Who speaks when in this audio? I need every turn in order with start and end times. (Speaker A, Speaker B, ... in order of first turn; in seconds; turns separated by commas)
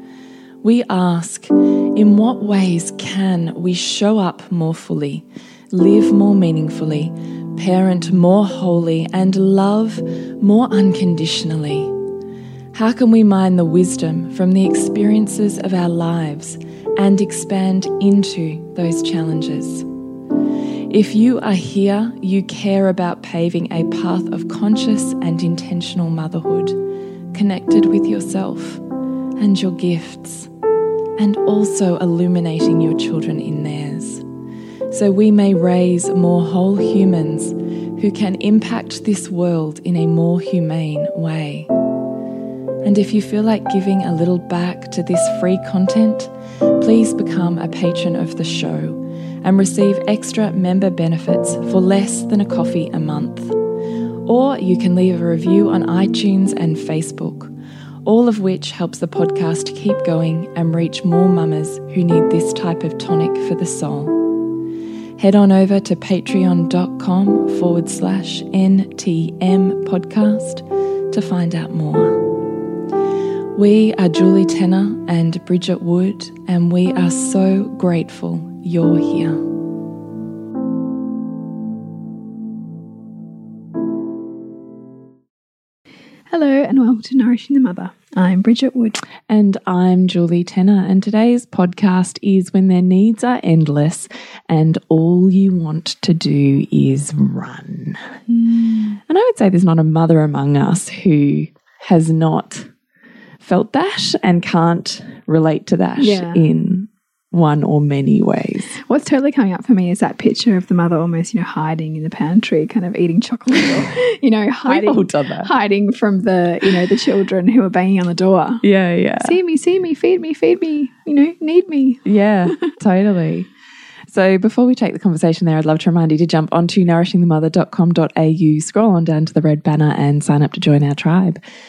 Speaker A: 0.6-11.9, Speaker A: 12.7-19.9, Speaker A: 20.9-26.8, Speaker A: 27.3-28.8, Speaker A: 29.4-30.5, Speaker A: 31.2-34.2, Speaker A: 34.9-41.7, Speaker A: 42.8-53.6, Speaker A: 54.2-57.5, Speaker A: 58.0-64.3, Speaker A: 65.2-72.3, Speaker A: 73.5-79.5, Speaker B: 86.3-89.0, Speaker A: 89.3-98.0, Speaker B: 98.3-99.0, Speaker A: 99.1-102.7, Speaker A: 103.4-108.8, Speaker B: 106.0-106.4, Speaker B: 108.8-118.6, Speaker A: 114.7-115.5, Speaker A: 118.6-119.4, Speaker B: 119.2-122.0, Speaker A: 122.0-123.5, Speaker A: 124.1-131.4